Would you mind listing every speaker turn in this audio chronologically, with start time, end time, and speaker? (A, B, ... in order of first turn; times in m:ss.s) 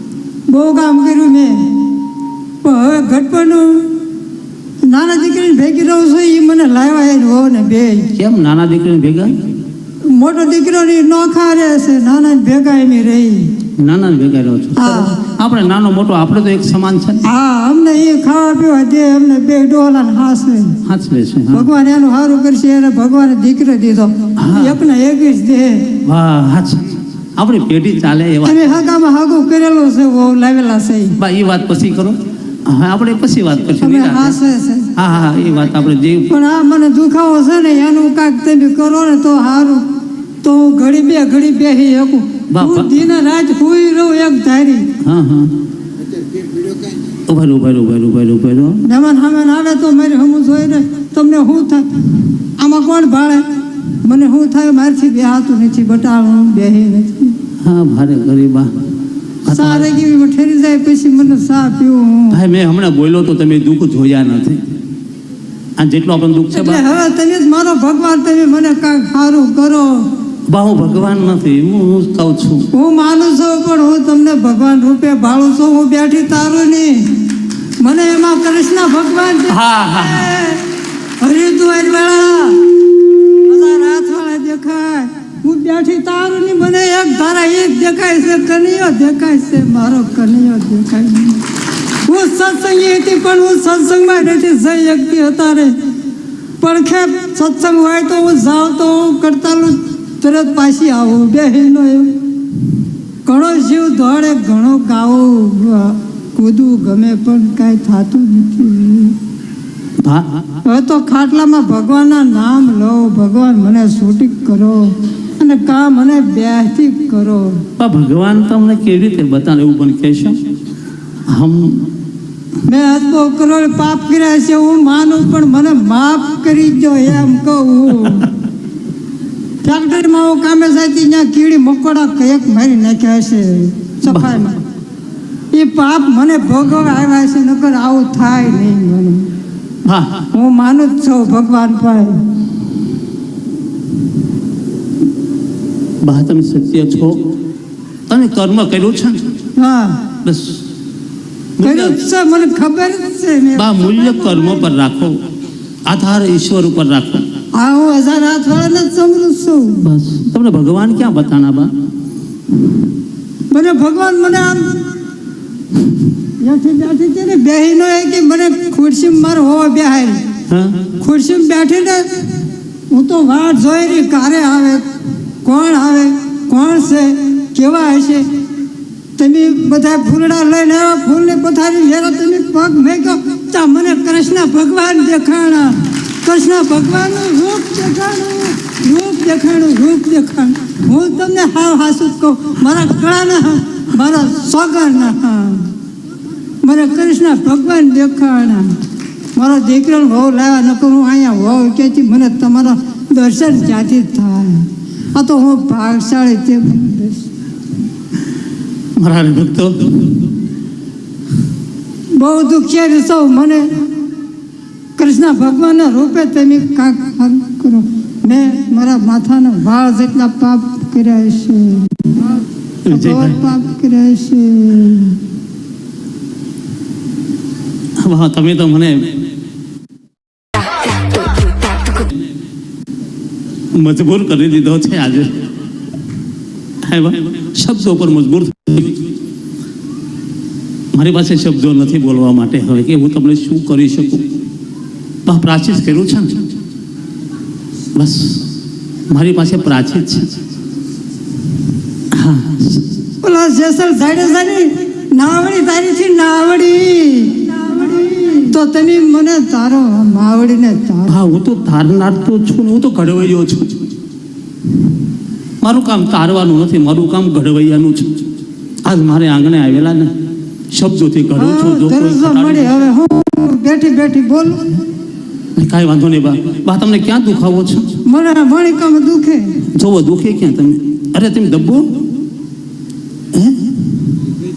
0:00.5-0:01.9 A
0:02.6-0:04.0 A
0:04.8-0:08.1 A
0:08.1-0:09.3 B
0:10.0-0:13.6 A
0:13.8-0:17.2 B
0:14.8-0:15.3 A
0:17.2-0:20.8 A
0:20.8-0:21.7 B
0:21.5-0:26.0 A
0:24.4-0:24.8 B
0:26.0-0:28.8 B
0:28.4-0:31.2 A
0:31.2-0:34.4 B
0:33.8-0:34.9 A
0:35.0-0:36.3 B
0:36.3-0:39.8 A
0:40.4-0:44.9 A
0:42.5-0:42.9 B
0:45.0-0:45.5 B
0:47.3-0:48.8 B
0:48.8-0:52.0 A
0:52.6-0:57.4 A
0:57.6-0:58.7 B
0:59.4-0:59.9 B
0:59.4-1:02.4 A
1:02.3-1:04.6 B
1:05.8-1:06.8 B
1:06.5-1:10.1 A
1:10.5-1:12.7 B
1:12.7-1:17.2 A
1:17.8-1:20.7 A
1:19.5-1:20.4 B
1:21.2-1:22.7 A
1:23.4-1:31.4 A
1:32.0-1:35.8 A
1:36.6-1:42.1 A
1:43.2-1:49.2 A
1:50.0-1:50.4 B
1:50.6-1:57.6 A
1:57.8-2:00.4 B
2:01.3-2:01.9 B
2:02.6-2:08.3 A
2:09.6-2:14.6 A
2:14.0-2:14.4 B
2:15.5-2:19.3 A
2:19.8-2:20.2 B
2:20.3-2:22.3 A
2:26.0-2:27.3 B
2:28.1-2:29.3 B
2:29.6-2:30.1 A
2:30.2-2:30.6 B
2:31.6-2:32.0 B
2:31.6-2:34.6 A
2:33.5-2:35.2 B
2:35.8-2:37.2 B
2:37.5-2:39.8 A
2:39.8-2:41.7 B
2:43.5-2:44.8 A
2:46.4-2:50.3 A
2:50.5-2:50.9 B
2:50.9-2:52.3 A
2:52.9-2:54.8 A
2:55.4-2:58.3 A
2:59.2-3:15.7 A
3:16.6-3:18.8 A
3:19.3-3:27.3 A
3:29.0-3:30.1 B
3:32.2-3:33.9 A
3:35.0-3:45.2 A
3:42.8-3:43.4 B
3:48.0-3:49.1 B
3:53.7-3:55.3 B
3:56.8-3:59.0 B
4:00.9-4:04.3 B
4:05.2-4:06.5 B
4:07.9-4:08.5 B
4:09.1-4:10.3 B
4:12.1-4:12.9 B
4:13.2-4:21.2 A
4:21.1-4:23.8 B
4:25.6-4:28.2 B
4:28.8-4:30.1 B
4:30.7-4:32.8 B
4:31.4-4:34.8 A
4:35.6-4:37.9 B
4:38.0-4:39.6 A
4:39.7-4:42.0 B
4:43.3-4:43.6 B